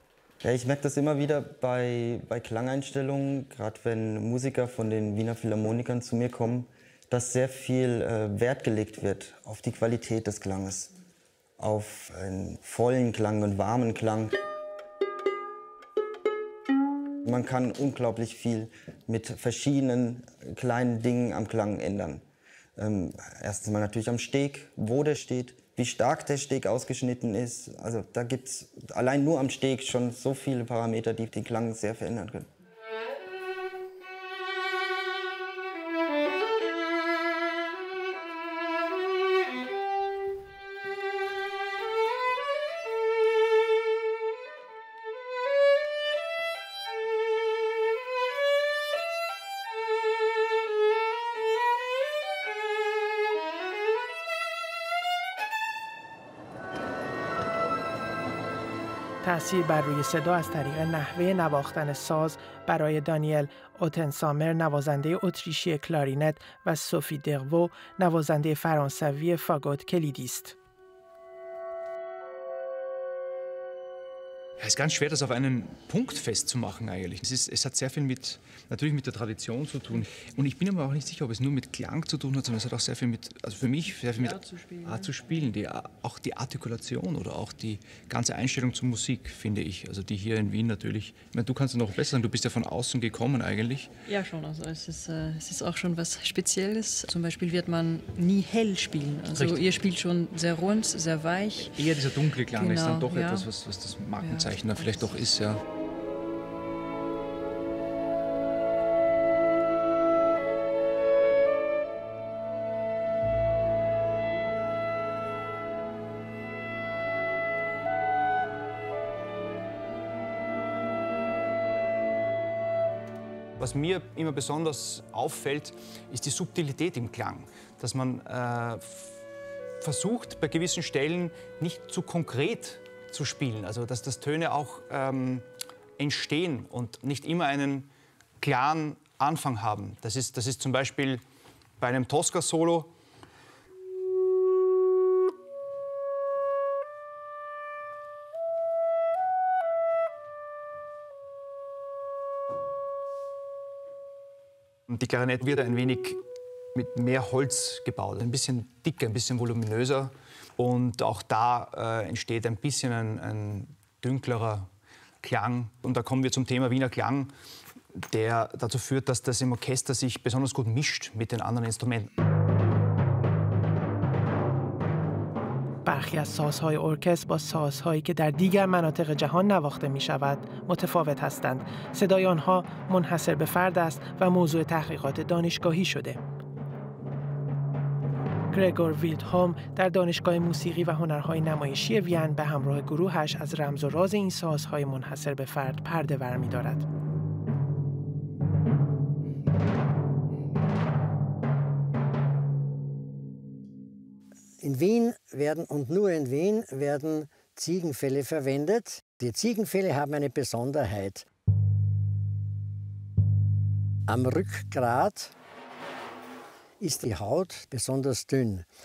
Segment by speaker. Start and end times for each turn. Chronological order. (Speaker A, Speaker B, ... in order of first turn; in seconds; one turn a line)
Speaker A: 0.4-10.9
Speaker A: 11.6-14.3
Speaker A: 17.2-22.2
Speaker A: 22.8-32.5
Speaker B: 59.2-70.5
Speaker C: 74.6-93.9
Speaker D: 84.0-85.4
Speaker D: 94.1-103.5
Speaker C: 99.3-99.7
Speaker C: 101.7-105.6
Speaker D: 104.1-105.3
Speaker C: 123.6-129.1
Speaker C: 129.8-135.4
Speaker C: 136.0-141.2
Speaker C: 141.8-142.9
Speaker C: 154.9-156.2
Speaker C: 156.7-164.7
Speaker C: 165.2-167.3
Speaker C: 168.1-172.1
Speaker B: 175.8-186.2
Speaker B: 188.5-196.8
Speaker E: 204.6-211.2
Speaker E: 214.1-215.3
Speaker E: 216.8-218.7